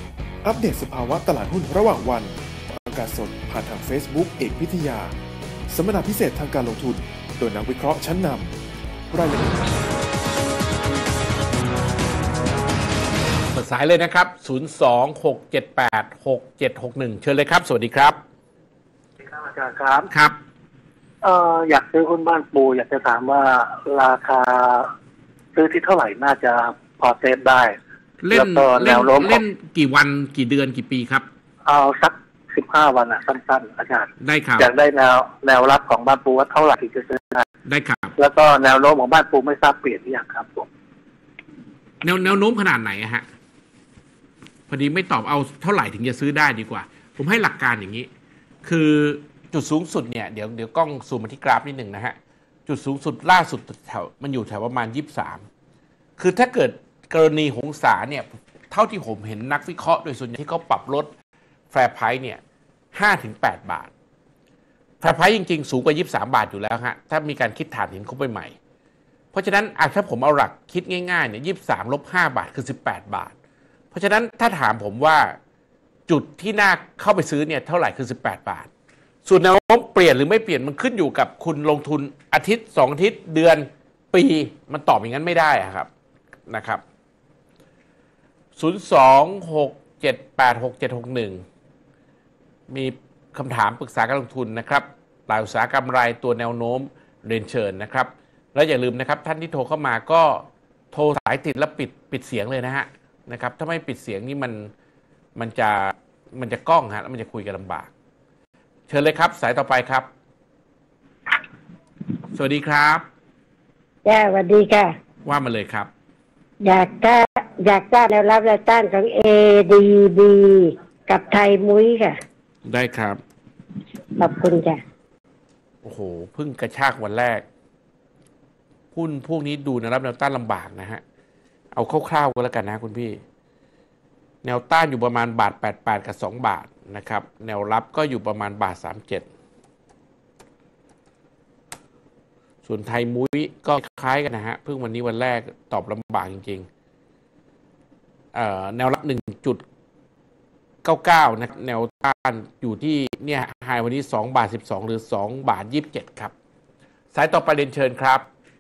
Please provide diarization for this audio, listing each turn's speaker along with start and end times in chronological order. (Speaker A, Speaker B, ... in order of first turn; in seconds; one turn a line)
Speaker A: 0.4-5.1
Speaker A: 5.7-8.6
Speaker A: 9.1-9.8
Speaker B: 13.5-18.2
Speaker C: 19.2-20.1
Speaker B: 20.1-20.4
Speaker C: 21.2-24.9
Speaker C: 25.5-27.8
Speaker B: 28.2-31.3
Speaker C: 28.3-29.4
Speaker C: 31.6-37.5
Speaker B: 34.2-34.7
Speaker B: 37.7-38.1
Speaker C: 38.2-40.7
Speaker B: 42.0-43.2
Speaker B: 44.7-48.1
Speaker B: 48.6-52.1
Speaker B: 52.7-55.4
Speaker B: 56.2-61.1
Speaker B: 61.7-62.4
Speaker B: 63.0-63.9
Speaker B: 65.0-68.5
Speaker B: 69.3-73.3
Speaker B: 73.9-75.3
Speaker B: 76.1-78.7
Speaker B: 79.2-85.9
Speaker B: 86.5-86.8
Speaker B: 88.6-91.4
Speaker B: 92.7-104.7
Speaker B: 105.3-107.9
Speaker B: 108.9-110.1
Speaker B: 112.3-113.0
Speaker D: 114.0-114.9
Speaker B: 115.2-115.9
Speaker D: 116.6-122.2
Speaker B: 122.7-123.2
Speaker D: 124.2-124.8
Speaker B: 125.8-127.4
Speaker B: 128.9-131.0
Speaker B: 131.7-133.2
Speaker B: 134.4-139.3
Speaker B: 142.6-146.7
Speaker B: 148.3-149.6
Speaker B: 150.8-156.3
Speaker B: 157.1-158.3